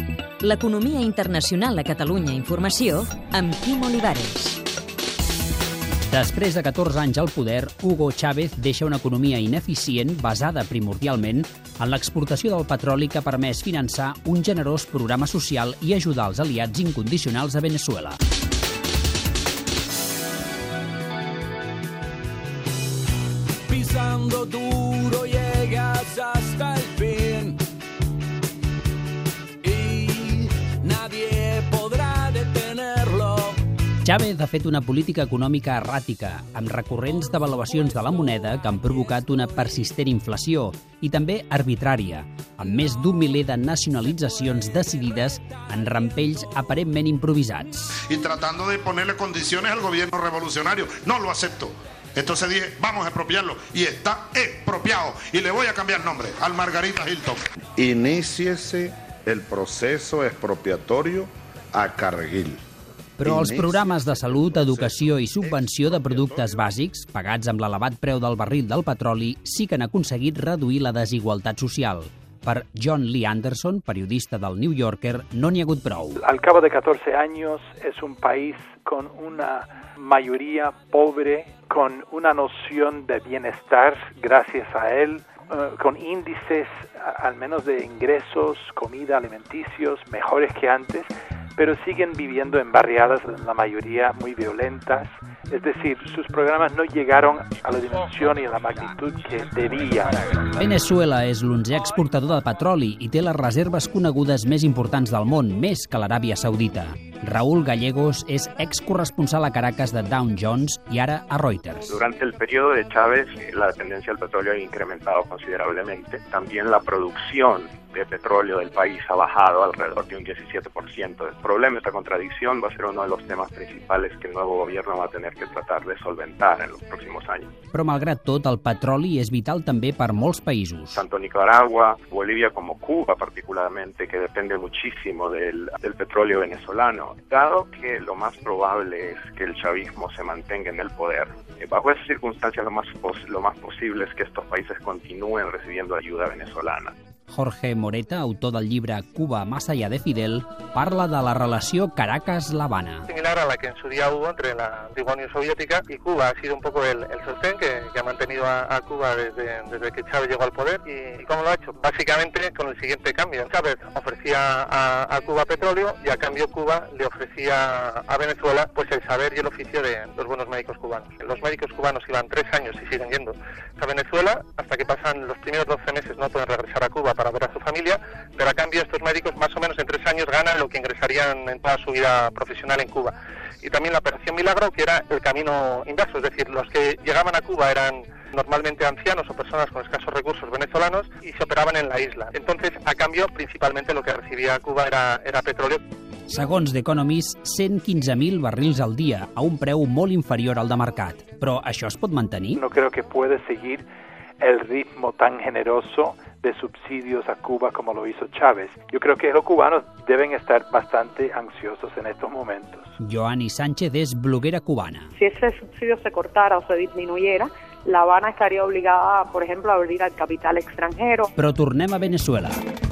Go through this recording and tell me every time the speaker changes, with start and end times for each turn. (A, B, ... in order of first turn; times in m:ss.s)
0:00.4-0:04.6 A
0:06.1-0:18.2 B
0:23.7-0:27.6 C
0:29.6-0:33.5 C
0:34.0-0:48.0 B
0:48.1-0:57.4 D
0:57.8-1:02.6 E
1:03.2-1:16.2 B
1:03.2-1:06.6 E
1:16.2-1:40.4 F
1:40.6-1:51.9 B
1:51.9-2:07.5 G
2:07.7-2:11.0 B
2:10.9-2:26.9 G
2:27.3-2:33.0 B
2:33.1-3:15.8 H
3:16.3-3:22.6 B
3:22.6-3:23.8 F
3:24.4-3:32.9 F
3:33.0-3:35.1 B
3:35.2-3:41.3 I
3:41.4-3:42.6 B